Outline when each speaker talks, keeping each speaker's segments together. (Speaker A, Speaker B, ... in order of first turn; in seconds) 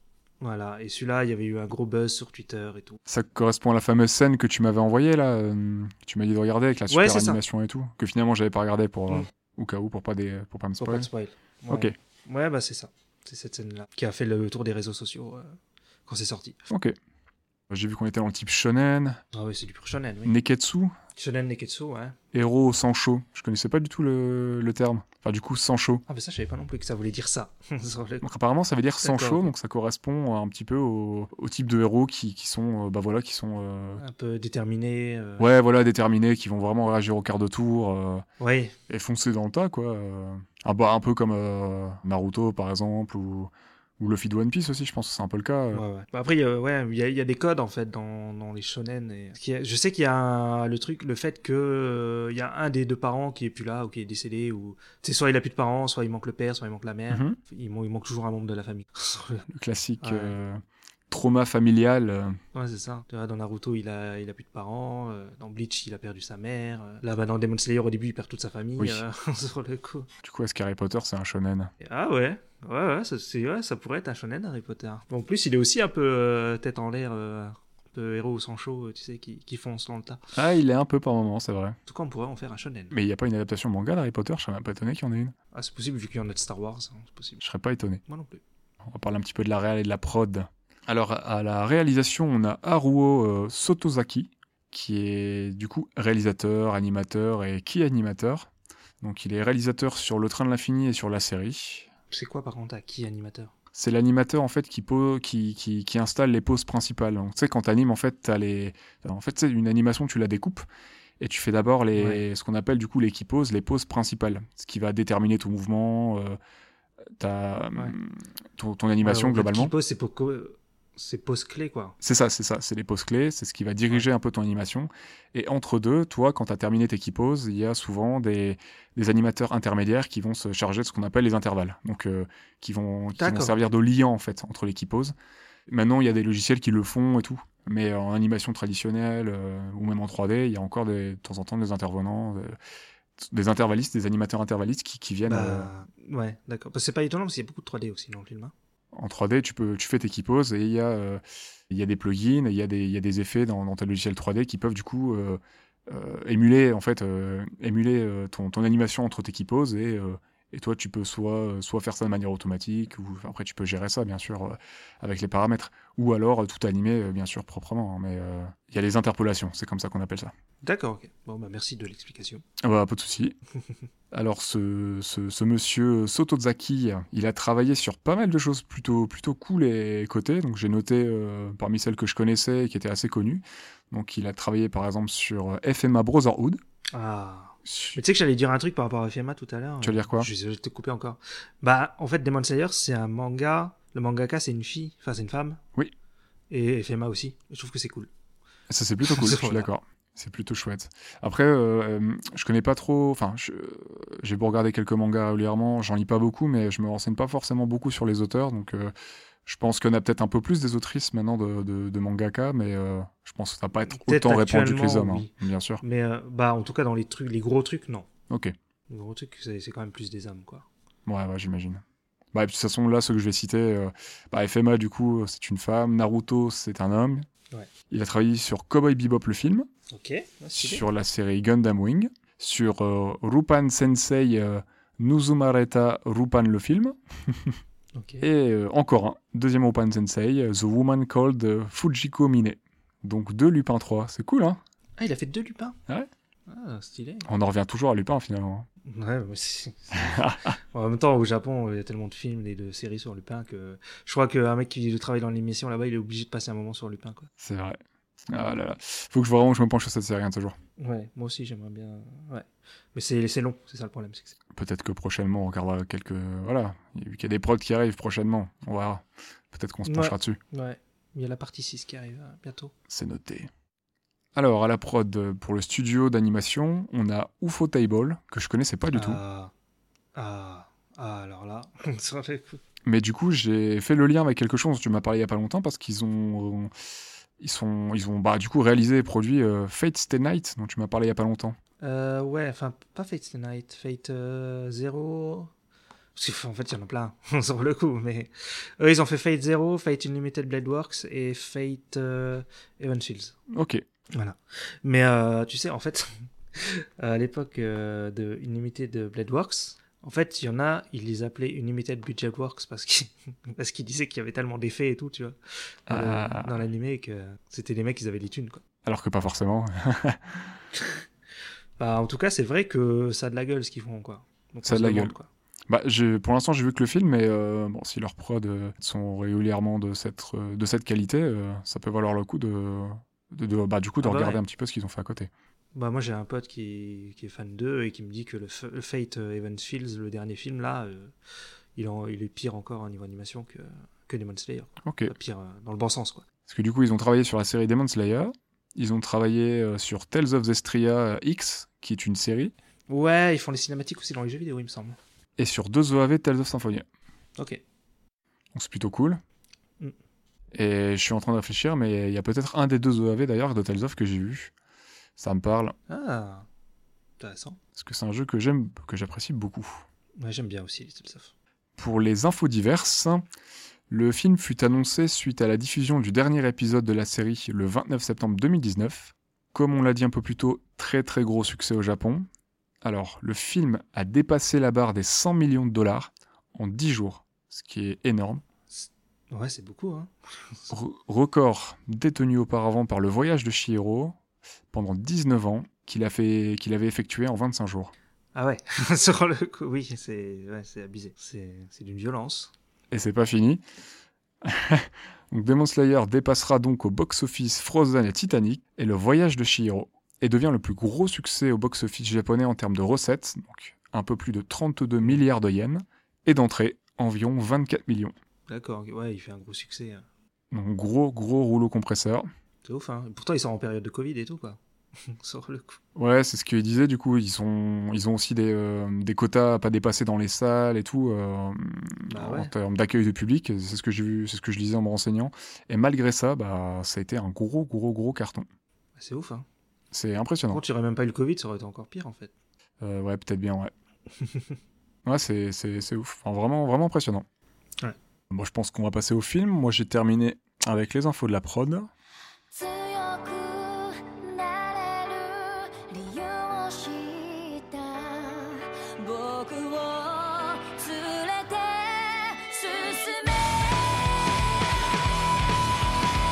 Speaker A: 0.4-3.0, 6.9-7.4, 10.8-16.6, 19.3-20.3, 21.1-22.2, 26.1-28.3, 29.0-29.5, 34.0-35.5, 38.4-38.8, 45.7-59.4, 60.0-60.4, 62.5-70.1, 71.8-80.2, 81.9-83.0, 85.5-87.4, 88.0-88.4, 102.1-103.5, 112.0-112.2, 119.0-122.0, 133.2-133.6, 145.2-148.5, 170.6-172.4, 186.9-195.6, 196.5-198.1, 199.0-199.7, 213.9-215.3, 215.8-218.1, 218.9-220.7, 229.9-230.8, 237.9-238.2, 245.0-245.8, 246.5-247.3, 248.8-257.3, 260.8-264.4, 269.9-272.7, 278.9-279.5, 280.1-282.6, 291.8-295.5, 296.1-303.4, 304.1-318.6, 320.7-321.0, 321.8-325.3, 334.0-334.4, 335.7-341.1, 341.8-346.2, 352.9-355.0, 365.9-366.5, 367.2-367.6, 370.2-371.3, 388.7-390.7, 398.4-402.5, 418.5-420.0, 422.6-425.8, 432.1-432.5, 439.0-439.5, 440.5-442.3, 444.2-444.6
Speaker B: 3.1-11.1, 16.7-16.9, 17.7-19.2, 20.2-20.9, 22.3-26.0, 28.2-34.0, 35.4-38.2, 38.9-45.8, 57.1-57.4, 59.5-62.4, 68.8-69.0, 70.2-71.7, 80.3-81.8, 82.9-85.3, 87.4-88.0, 88.9-98.5, 99.0-101.9, 103.7-110.6, 111.2-116.4, 117.2-119.7, 122.0-135.1, 135.7-142.6, 143.2-145.7, 148.9-170.3, 172.6-173.4, 174.1-186.6, 187.7-188.0, 189.8-190.3, 198.7-208.9, 209.5-215.8, 221.1-221.8, 222.3-227.3, 227.9-229.7, 230.5-237.6, 238.2-244.6, 247.2-248.7, 249.9-250.6, 257.4-260.6, 264.5-270.4, 272.9-273.5, 274.4-279.2, 282.9-286.7, 287.4-291.6, 303.5-303.8, 315.9-316.6, 318.9-320.5, 324.6-325.1, 325.7-335.3, 344.8-345.1, 346.5-352.5, 355.4-356.9, 358.5-359.2, 360.5-364.5, 365.2-365.8, 367.8-369.8, 371.8-373.2, 373.9-382.3, 382.8-388.4, 390.7-394.1, 394.7-397.9, 402.9-403.6, 404.4-418.1, 420.5-422.3, 426.0-438.5, 439.9-440.6, 442.8-443.7, 445.1-447.2, 448.3-451.9
Speaker C: 452.5-464.4